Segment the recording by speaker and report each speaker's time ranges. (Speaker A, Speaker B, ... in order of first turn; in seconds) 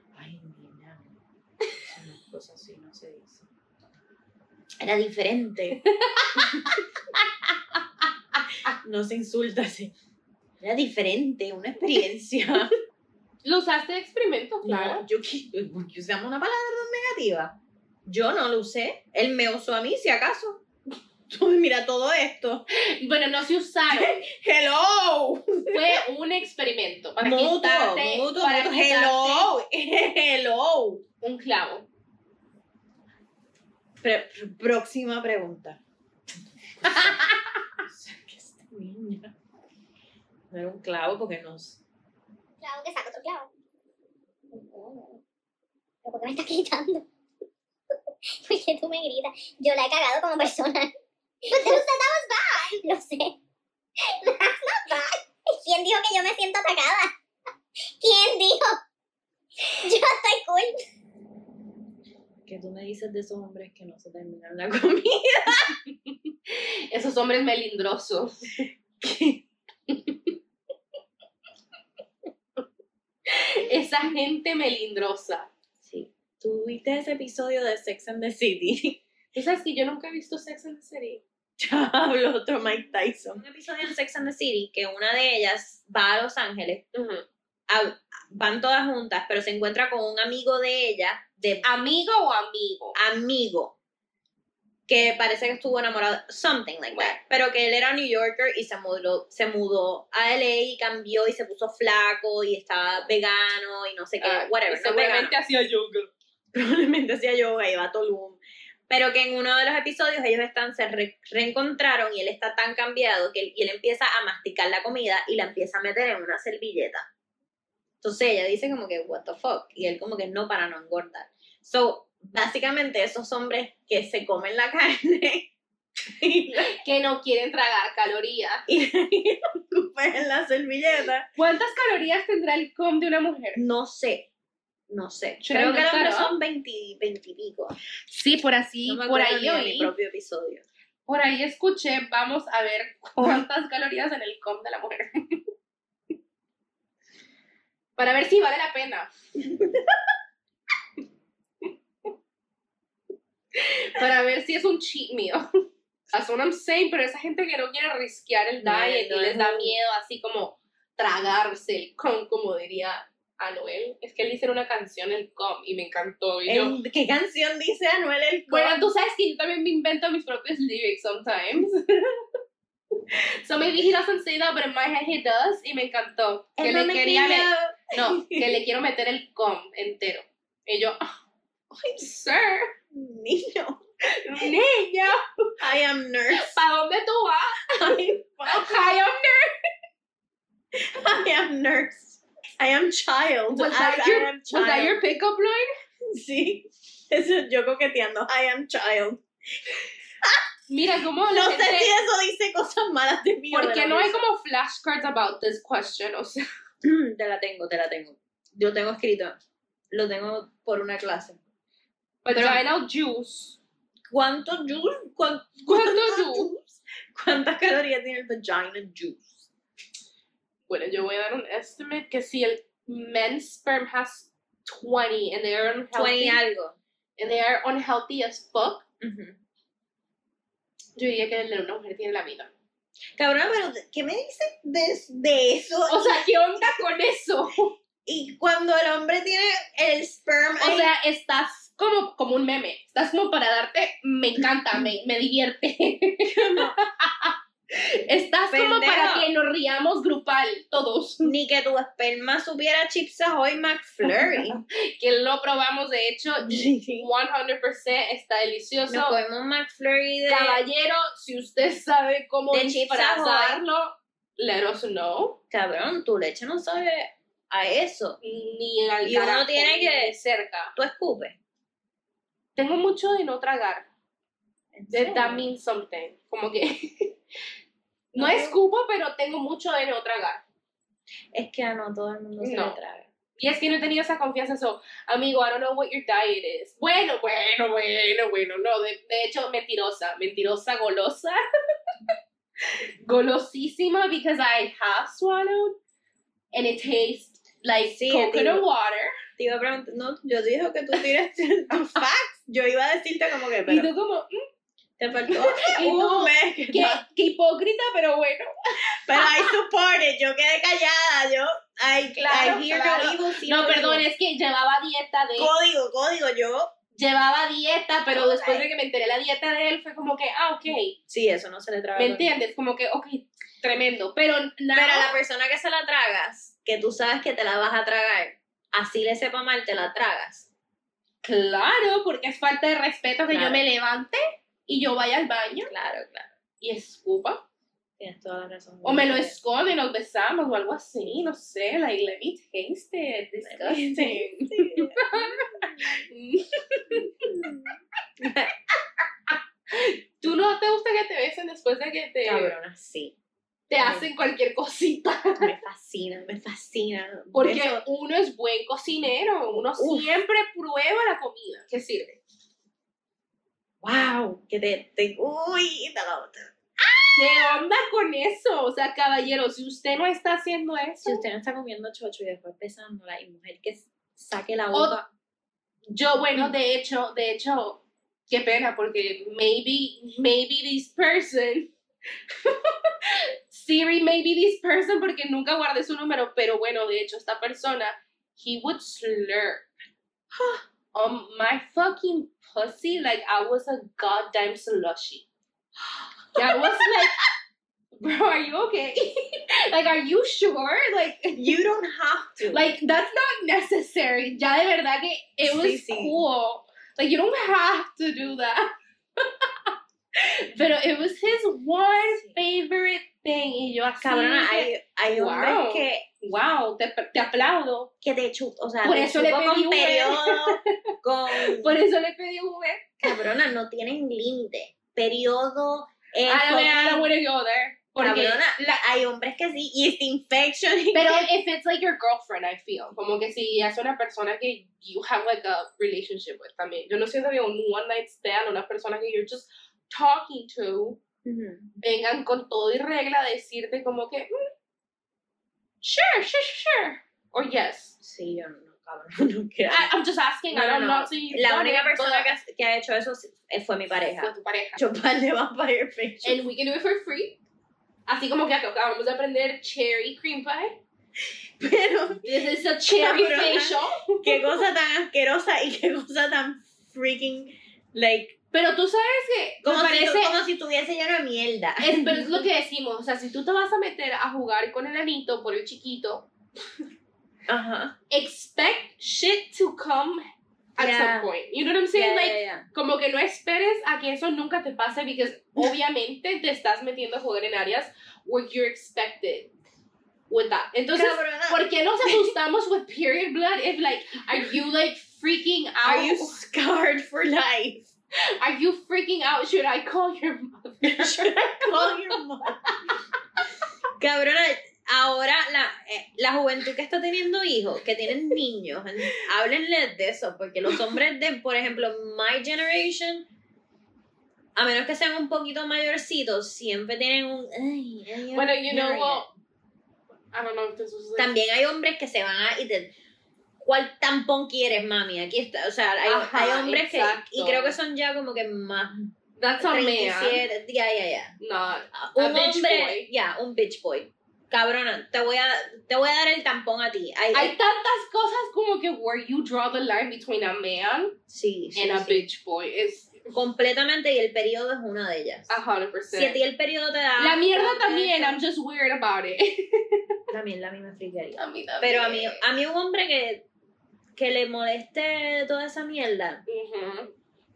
Speaker A: 0.1-1.1, 1.8-3.5, 4.8-5.8, 6.3-7.8, 8.8-9.9, 10.6-12.7, 14.6-20.6, 21.3-22.6, 23.9-26.0, 27.2-31.0, 34.0-35.8, 36.8-39.3, 40.5-41.8, 62.5-65.8, 69.0-69.4, 75.8-79.0, 81.6-86.8, 87.7-91.7, 93.0-93.8, 94.9-105.3, 106.5-117.1, 118.0-125.5, 126.0-126.7, 128.7-131.3, 133.6-134.3, 134.9-137.8, 138.9-140.7, 143.2-143.4, 158.6-159.8, 166.5-168.8, 176.6-178.6, 182.9-183.8, 185.6-186.6, 187.7-189.0, 190.7-195.0, 196.1-200.4, 201.3-204.2, 206.8-209.4, 209.9-211.4, 212.3-212.6, 214.1-219.5, 225.9-226.8, 229.0-229.4, 233.2-236.3, 238.1-240.9, 246.3-246.8, 248.5-249.3, 251.2-254.6, 256.4-257.1, 258.9-260.6, 262.5-263.6, 265.5-268.2, 269.0-270.1, 270.8-271.4, 274.7-275.5, 278.2-278.6, 281.3-283.1, 297.9-298.6, 299.4-303.9, 305.0-307.0, 309.0-314.1, 315.4-316.7, 318.1-318.7, 321.1-322.3, 324.7-330.5, 333.3-333.6, 335.7-336.3, 338.0-339.4, 343.4-346.1, 347.1-348.5, 352.2-353.1, 353.8-354.1, 355.4-357.8, 359.5-360.2, 363.8-367.6, 371.0-375.0, 396.0-397.1, 401.4-402.7, 405.4-406.2, 414.0-416.1, 418.0-421.8, 423.0-427.1, 428.0-431.3, 441.2-441.7, 448.0-449.9, 450.5-456.4, 461.6-468.4, 469.6-472.5, 477.5-477.9, 480.8-481.3, 481.9-482.7, 490.9-492.4, 495.9-497.9, 500.8-502.7, 504.0-513.2, 514.5-519.3, 521.2-522.9, 523.6-531.4, 531.9-537.5, 541.3-542.3, 543.3-545.6, 546.1-548.4, 550.3-553.5, 554.2-556.4
Speaker B: 5.8-6.7, 13.4-15.0, 22.7-24.2, 25.7-29.5, 31.2-31.9, 36.9-37.3, 66.1-68.7, 69.9-70.3, 73.3-75.5, 79.3-81.2, 86.9-87.2, 91.6-93.0, 96.9-97.2, 104.2-106.1, 126.6-128.7, 131.4-133.6, 135.4-136.3, 138.1-139.9, 141.1-145.4, 148.0-149.1, 153.6-155.4, 156.1-166.8, 168.5-172.2, 173.1-181.0, 181.8-182.7, 184.2-185.2, 186.3-189.5, 193.5-195.7, 200.7-202.0, 203.5-206.4, 212.2-213.6, 215.7-216.5, 220.7-226.4, 227.2-228.8, 231.0-232.5, 235.9-237.8, 240.6-251.3, 254.8-259.2, 260.3-265.4, 268.2-270.8, 272.6-273.9, 274.9-277.2, 278.1-280.4, 282.4-282.8, 283.4-291.4, 293.0-295.8, 296.5-299.1, 301.7-302.0, 303.6-304.4, 305.3-309.6, 312.2-315.5, 316.9-321.0, 321.9-325.1, 331.2-335.7, 336.6-337.4, 338.8-347.4, 349.7-352.6, 353.7-355.5, 357.3-362.2, 367.1-371.2, 374.7-375.0, 375.9-381.7, 382.4-389.7, 390.9-395.3, 396.4-397.2, 398.0-401.6, 402.5-417.9, 418.8-420.7, 421.3-423.1, 426.3-428.8, 430.9-441.0, 441.8-444.3, 445.8-448.0, 449.7-452.3, 454.2-454.8, 456.2-457.4, 458.1-460.8, 462.2-464.6, 468.5-470.4, 471.8-476.3, 478.1-480.3, 480.8-489.5, 490.3-496.4, 498.4-501.9, 502.6-503.0, 518.3-519.3, 520.3-521.3, 526.0-527.8, 529.4-530.4, 531.4-533.1, 537.3-541.2, 541.8-543.3, 545.5-546.4, 547.2-550.0, 551.4-552.4, 556.5-557.1
Speaker C: 42.6-43.5, 44.6-45.1, 46.0-47.1, 48.4-50.9, 51.5-53.4, 54.0-57.1, 57.9-58.8, 59.7-60.8